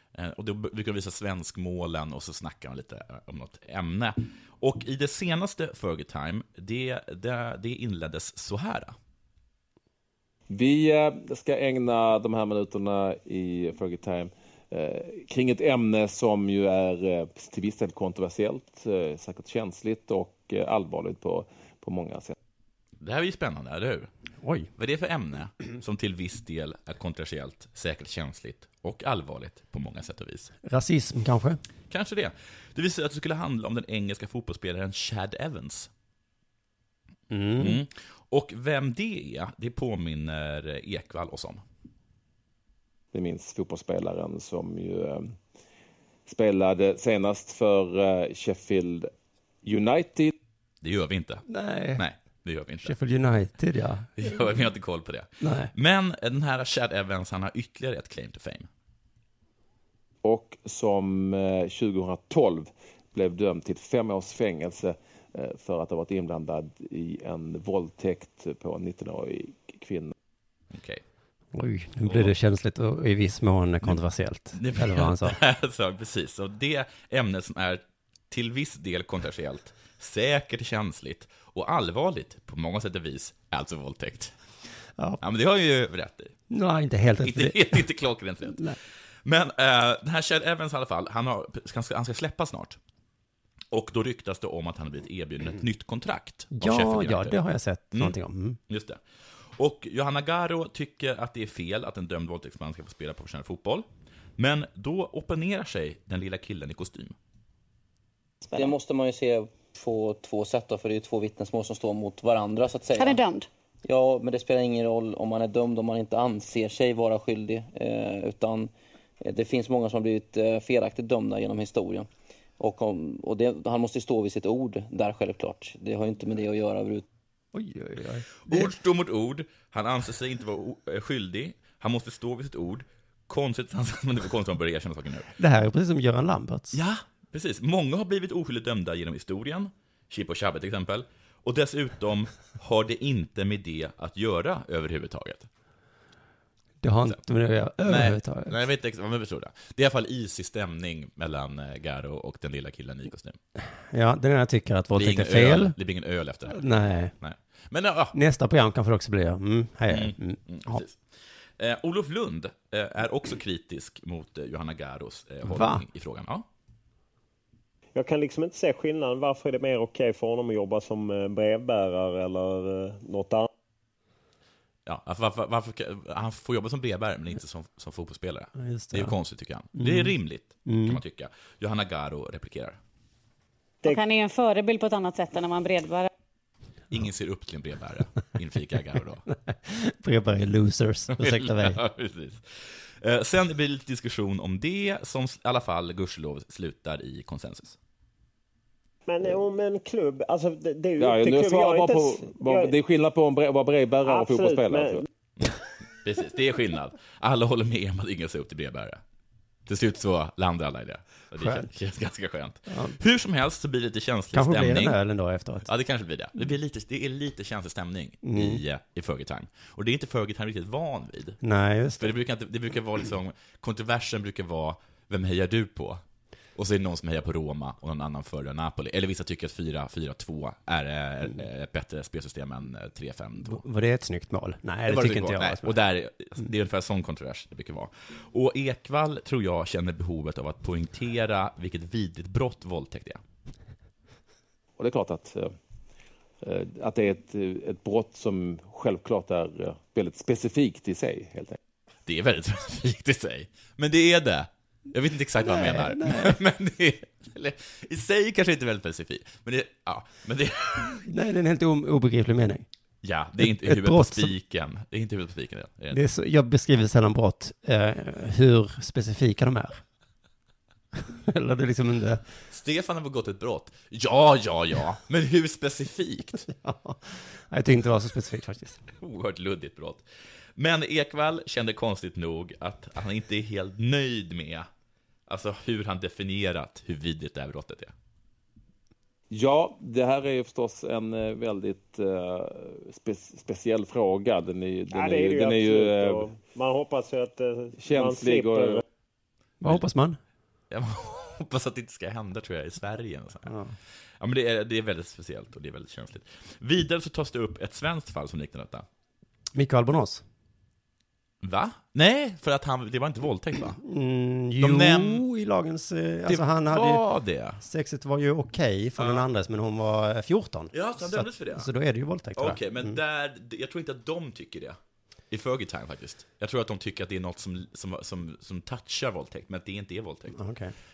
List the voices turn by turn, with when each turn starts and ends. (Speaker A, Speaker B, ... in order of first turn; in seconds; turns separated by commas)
Speaker A: 0.1-8.9, Speaker B: 10.5-22.3, Speaker A: 23.0-24.1, Speaker C: 24.4-24.7, Speaker A: 24.8-30.5, Speaker C: 30.6-31.6, Speaker A: 31.9-35.9, Speaker C: 37.3-37.8, Speaker A: 37.6-41.6, Speaker B: 43.1-45.4, Speaker B: 46.2-49.1, Speaker B: 49.6-50.3, Speaker A: 50.8-52.9, Speaker C: 51.5-52.0, Speaker C: 52.8-54.3, Speaker A: 54.2-58.7, Speaker C: 55.4-55.7, Speaker B: 60.2-70.1, Speaker A: 70.7-71.0, Speaker C: 71.5-75.4, Speaker A: 72.1-72.3, Speaker A: 74.5-84.3, Speaker A: 85.2-86.3, Speaker C: 86.5-87.8, Speaker A: 87.2-92.8, Speaker C: 88.5-88.8, Speaker A: 93.7-97.4, Speaker C: 96.5-98.6, Speaker A: 98.7-107.2, Speaker D: 108.5-108.7, Speaker E: 108.5-113.2, Speaker D: 112.9-113.5, Speaker E: 113.8-118.7, Speaker E: 119.2-122.1, Speaker E: 122.6-127.0, Speaker C: 127.5-128.7, Speaker A: 128.4-135.3, Speaker C: 135.4-136.8, Speaker A: 136.7-145.5, Speaker C: 146.8-148.6, Speaker A: 147.8-153.4, Speaker C: 153.9-155.8, Speaker A: 154.9-156.7, Speaker C: 156.5-157.1, Speaker A: 157.2-158.1, Speaker C: 158.1-160.8, Speaker A: 159.9-166.5, Speaker C: 165.4-165.8, Speaker F: 167.9-173.5, Speaker A: 174.8-182.8, Speaker C: 178.6-179.1, Speaker C: 179.7-181.0, Speaker D: 183.8-186.1, Speaker A: 186.9-189.2, Speaker C: 189.3-191.8, Speaker A: 191.1-197.8, Speaker F: 199.1-202.8, Speaker B: 201.0-205.0, Speaker F: 204.0-205.0, Speaker A: 205.4-209.0, Speaker A: 209.7-215.0, Speaker C: 211.3-211.7, Speaker C: 212.7-213.0, Speaker C: 214.3-215.7, Speaker A: 215.6-221.4, Speaker C: 218.2-218.6, Speaker C: 221.4-222.1, Speaker A: 222.0-226.0, Speaker A: 226.6-233.6, Speaker C: 233.4-235.7, Speaker A: 234.8-243.2, Speaker B: 244.8-245.5, Speaker B: 246.4-251.6, Speaker A: 252.1-261.1, Speaker C: 255.4-256.4, Speaker C: 261.1-262.6, Speaker A: 263.0-266.0, Speaker C: 263.4-264.3, Speaker C: 265.9-269.8, Speaker C: 271.1-272.2, Speaker A: 272.5-276.5, Speaker C: 276.5-278.8, Speaker A: 279.0-280.0, Speaker A: 280.6-284.7, Speaker A: 285.3-287.9, Speaker B: 289.3-296.3, Speaker F: 294.9-298.8, Speaker B: 297.8-298.8, Speaker C: 299.6-300.2, Speaker A: 300.7-303.5, Speaker C: 303.4-303.7, Speaker A: 304.2-308.9, Speaker C: 309.5-310.2, Speaker A: 311.4-313.8, Speaker C: 313.8-317.0, Speaker A: 314.6-315.2, Speaker A: 316.2-317.6, Speaker C: 317.6-323.0, Speaker A: 319.0-319.2, Speaker A: 320.7-321.7, Speaker A: 322.4-324.8, Speaker A: 325.3-330.4, Speaker C: 330.4-330.7